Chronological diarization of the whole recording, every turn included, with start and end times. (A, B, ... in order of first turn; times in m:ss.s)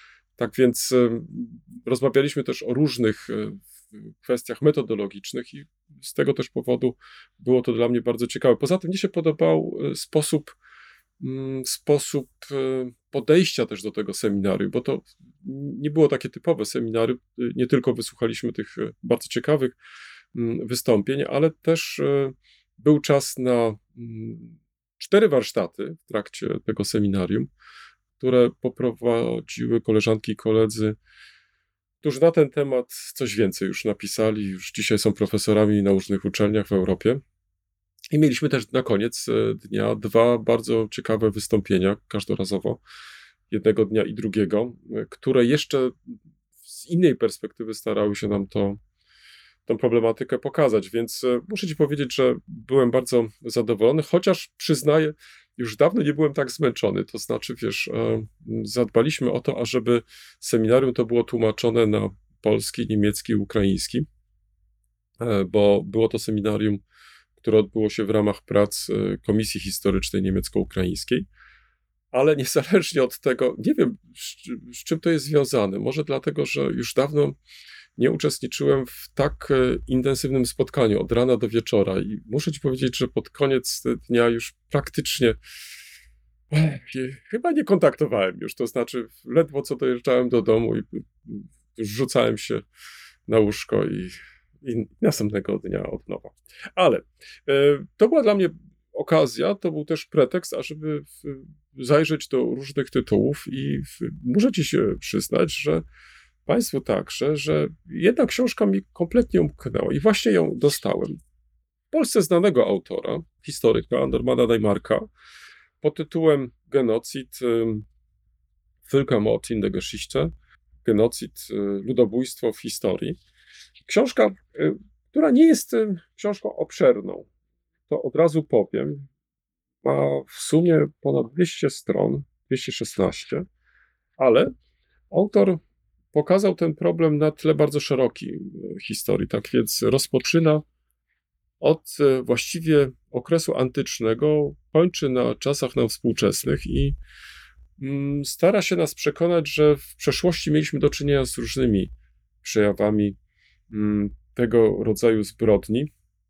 0:00.4-0:10.5 A
0:11.2-0:19.8 A
0:20.3-0:27.5 A
0:28.2-0:31.0 A
0:32.0-0:37.2 A
0:38.1-0:42.8 A
0:43.5-0:48.8 A
0:49.6-1:04.0 A
1:05.2-1:06.8 A
1:07.4-1:11.3 A
1:12.1-1:17.4 A
1:18.0-1:25.4 A
1:26.5-1:32.6 A
1:33.3-1:45.8 A
1:46.4-1:51.2 A
1:51.9-1:55.1 A
1:55.8-1:57.8 A
1:58.9-2:00.3 A
2:00.8-2:03.2 A
2:03.9-2:07.3 A
2:07.9-2:09.1 A
2:09.8-2:13.4 A
2:14.2-2:14.5 A
2:15.1-2:15.6 A
2:16.1-2:20.6 A
2:21.6-2:27.0 A
2:27.8-2:31.9 A
2:32.4-2:33.2 A
2:33.7-2:35.9 A